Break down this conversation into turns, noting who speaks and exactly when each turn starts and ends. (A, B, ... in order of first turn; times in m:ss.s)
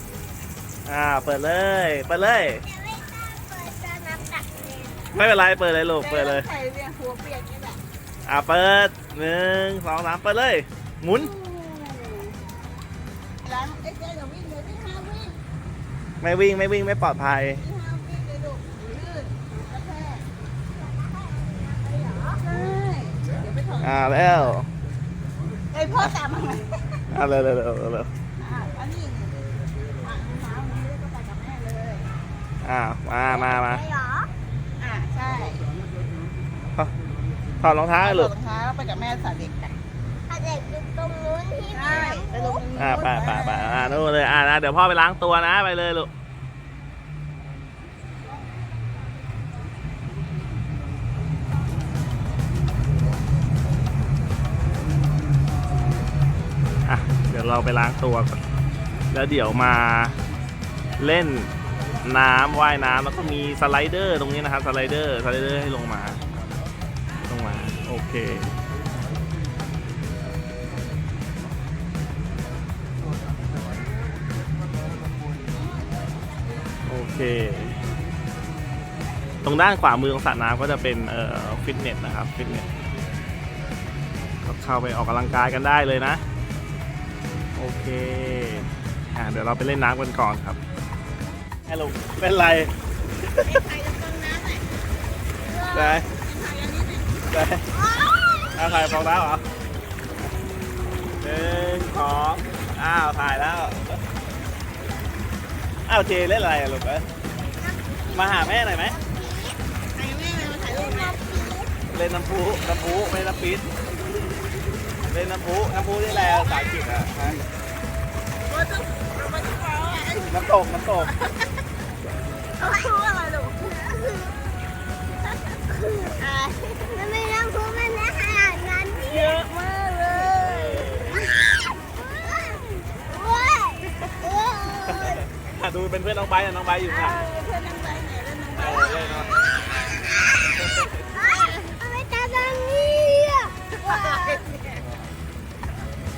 0:00.9-0:02.6 A
0:02.6-0:05.1 B
0:05.1-0:06.5 A
0:06.0-0:07.8 C
0:08.2-0:11.3 A
0:11.2-0:12.4 C
0:13.4-0:15.4 C
0:16.2-0:17.6 A
0:17.6-0:20.3 C
0:20.8-0:22.5 B
0:22.4-0:24.4 C
0:23.8-0:24.7 A
0:25.7-0:27.0 C
0:27.1-0:28.1 A
0:28.4-0:29.5 C
0:30.0-0:32.1 C
0:32.6-0:33.8 A
0:33.2-0:34.3 B
0:34.8-0:35.6 C
0:37.6-0:38.3 A
0:38.0-0:39.8 C
0:40.3-0:42.6 B
0:41.7-0:44.0 C
0:42.8-0:46.1 A
0:56.9-0:58.4 A
0:59.1-1:00.2 A
1:01.0-1:06.2 A
1:07.3-1:08.6 A
1:16.9-1:17.8 A
1:19.4-1:22.7 A
1:24.4-1:26.2 A
1:27.6-1:30.6 A
1:31.7-1:32.7 A
1:33.3-1:33.6 A
1:33.4-1:34.7 C
1:35.4-1:37.4 C
1:35.7-1:36.1 A
1:37.3-1:37.7 A
1:37.7-1:39.1 B
1:38.6-1:39.4 A
1:41.2-1:44.0 A
1:45.9-1:47.1 A
1:47.5-1:49.6 B
1:48.1-1:49.0 A
1:50.0-1:51.2 C
1:50.7-1:51.7 B
1:51.9-1:53.7 A
1:55.1-1:57.4 A
1:55.9-1:56.9 B
1:56.3-1:56.7 C
1:58.5-2:01.6 C
2:00.3-2:01.2 A
2:02.6-2:04.3 C
2:02.6-2:02.9 B
2:05.3-2:07.0 C
2:06.9-2:09.4 B
2:09.1-2:11.4 C
2:10.2-2:15.4 B
2:10.4-2:11.2 A
2:14.9-2:17.2 A
2:16.8-2:20.1 C
2:18.6-2:19.4 A
2:19.1-2:24.4 B
2:20.6-2:20.9 A
2:21.1-2:21.7 C
2:23.8-2:24.9 C